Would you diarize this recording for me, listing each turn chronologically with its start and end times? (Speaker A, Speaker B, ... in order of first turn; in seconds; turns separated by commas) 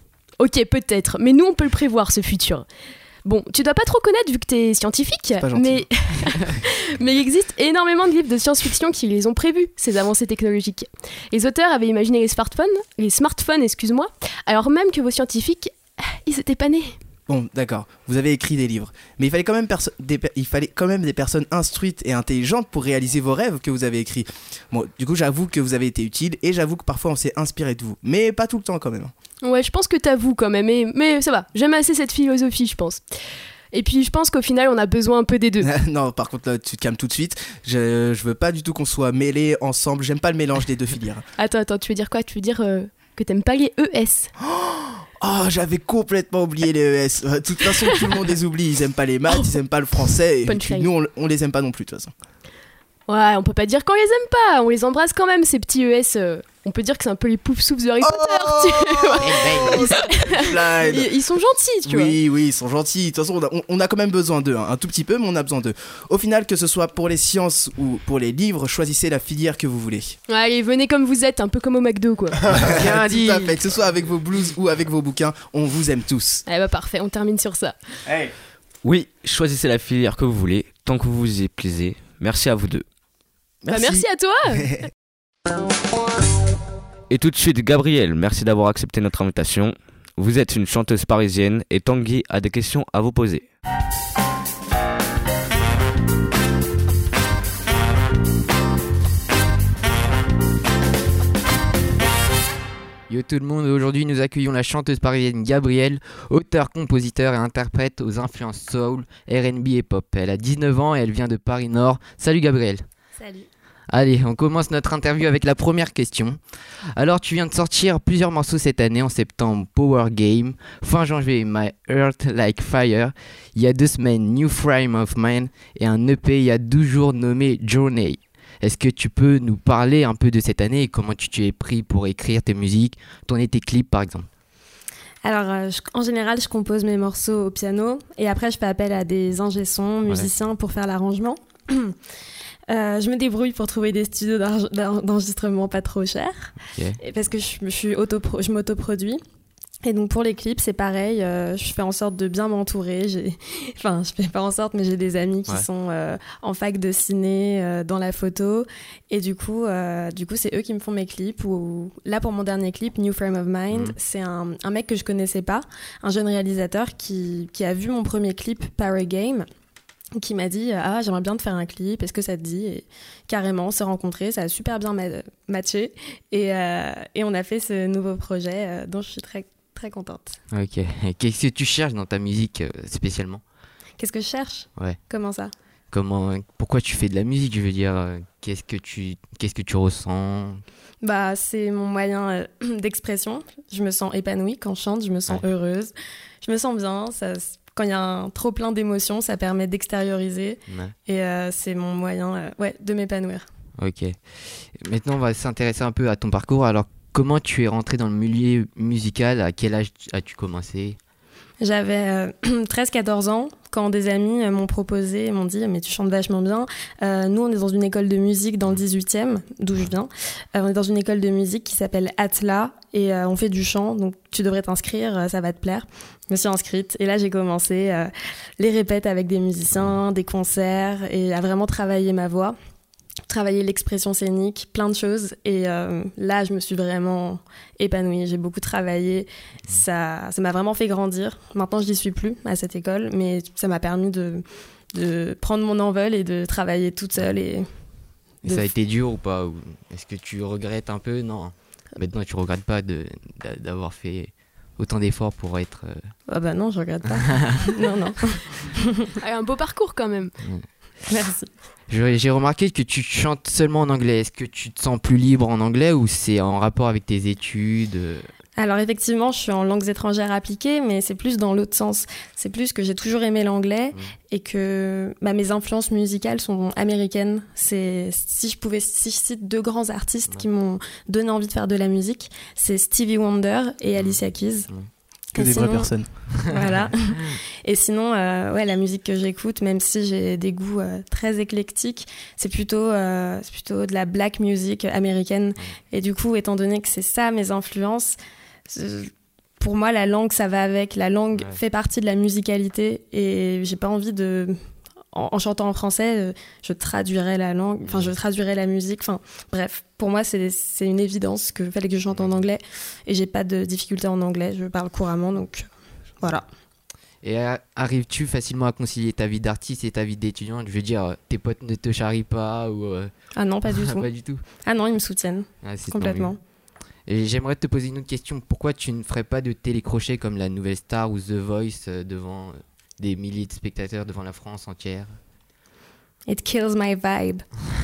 Speaker A: 0.4-2.7, Speaker A: 3.2-16.9, Speaker B: 5.4-5.9, Speaker B: 17.3-29.1, Speaker A: 29.4-33.0, Speaker A: 33.7-35.7, Speaker B: 35.6-41.2, Speaker A: 41.4-44.3, Speaker B: 44.4-52.1, Speaker A: 50.3-50.9, Speaker A: 53.1-62.2, Speaker B: 58.0-61.1, Speaker C: 59.2-59.6, Speaker B: 61.9-70.2, Speaker A: 70.3-73.5, Speaker B: 72.7-76.4, Speaker A: 76.5-77.8, Speaker D: 78.8-82.9, Speaker B: 83.6-84.0, Speaker A: 83.7-84.9, Speaker D: 87.1-93.5, Speaker C: 103.1-112.8, Speaker E: 113.2-113.5, Speaker C: 113.9-134.3, Speaker E: 135.2-142.0, Speaker E: 142.7-149.2, Speaker E: 149.8-169.5, Speaker C: 163.7-164.0, Speaker E: 170.2-180.4, Speaker C: 180.5-183.4, Speaker E: 184.0-185.5, Speaker C: 185.9-190.6, Speaker E: 191.0-203.4, Speaker C: 200.7-200.9, Speaker C: 203.8-211.0, Speaker E: 211.6-232.6, Speaker E: 233.3-247.7, Speaker C: 247.2-247.4, Speaker E: 248.4-248.7, Speaker C: 248.4-256.1, Speaker E: 256.3-259.0, Speaker C: 257.3-257.6, Speaker A: 259.2-260.3, Speaker E: 261.1-261.5, Speaker C: 261.9-268.3, Speaker E: 268.6-284.7, Speaker C: 283.9-284.9, Speaker E: 285.3-298.2, Speaker B: 285.3-286.1, Speaker E: 298.7-304.6, Speaker C: 301.3-301.6, Speaker E: 305.1-315.7, Speaker C: 307.8-308.1, Speaker C: 312.1-312.4, Speaker E: 316.2-316.5, Speaker C: 317.2-323.1, Speaker E: 323.3-326.4, Speaker C: 323.6-324.4, Speaker C: 325.6-326.4, Speaker C: 327.1-335.2, Speaker E: 336.3-337.5